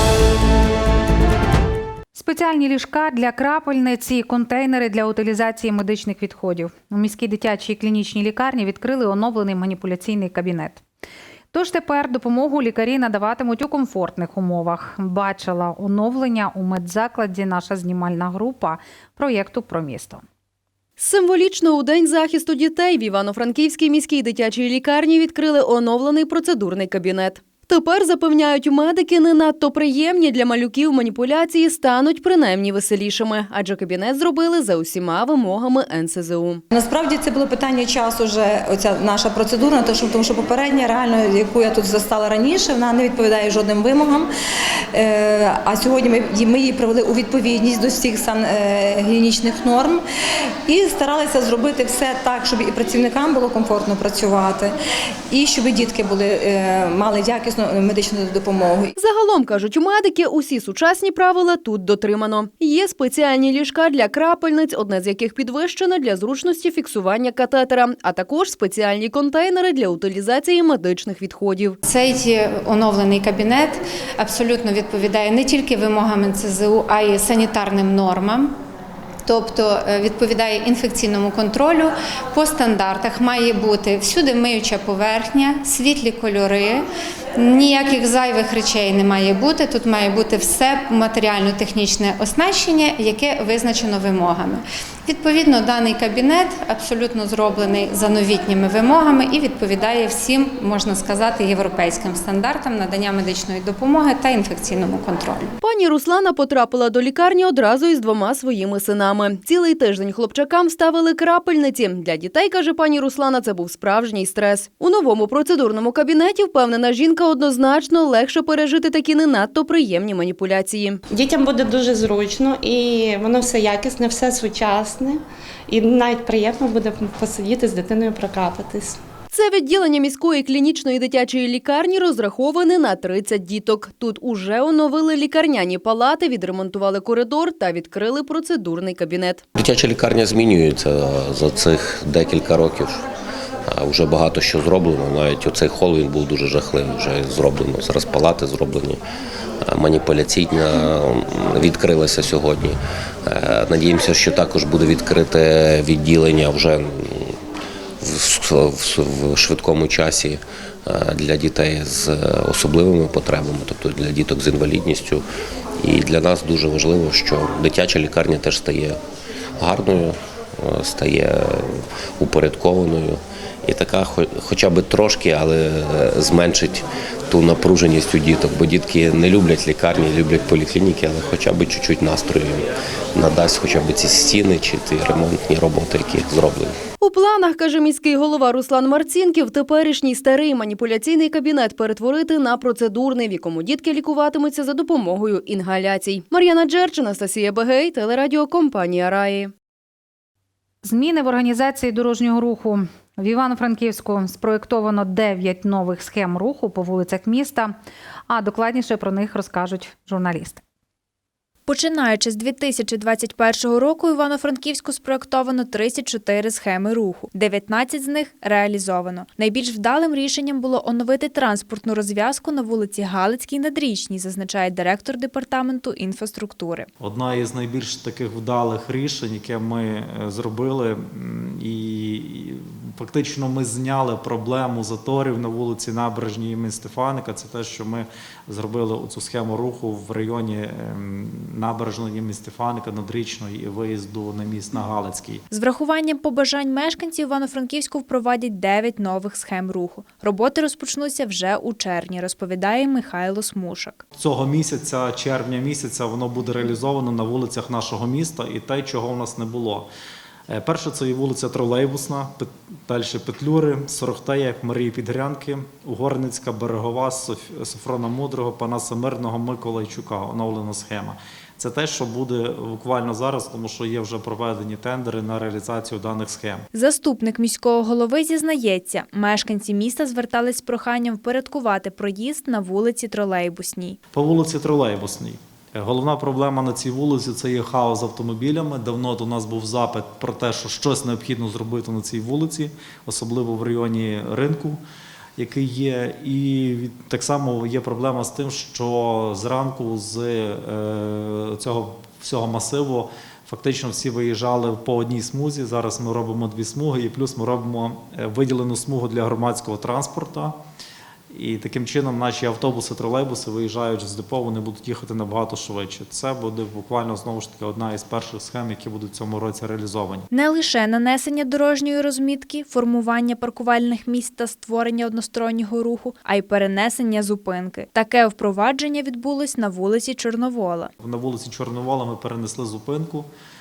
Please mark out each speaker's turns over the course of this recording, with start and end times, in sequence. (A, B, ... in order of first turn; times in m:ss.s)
0:02.1-0:10.8 A
0:11.5-0:20.2 A
0:21.0-0:36.6 B
0:36.7-0:44.3 C
0:45.0-0:50.0 C
0:50.6-0:54.7 C
0:55.3-0:58.9 C
0:59.0-1:11.8 B
1:11.8-1:18.5 D
1:19.2-1:26.8 D
1:27.4-1:45.5 D
1:45.6-2:01.0 B
2:01.1-2:09.0 E
2:09.3-2:19.4 B
2:19.6-2:23.0 F
2:23.7-2:29.0 F
2:29.6-2:37.4 F
2:38.0-2:45.2 F
2:45.8-2:49.0 F
2:49.6-3:06.8 F
3:07.0-3:19.5 B
3:20.8-3:27.7 A
3:28.3-3:30.6 A
3:31.7-3:46.9 G
3:47.0-4:05.4 H
4:05.5-4:14.0 G
4:14.2-4:19.9 H
4:20.5-4:36.6 H
4:36.7-4:44.0 G
4:44.1-4:54.8 H
4:55.4-5:10.5 H
5:11.3-5:20.3 H
5:20.3-5:30.9 G
5:31.0-5:33.3 H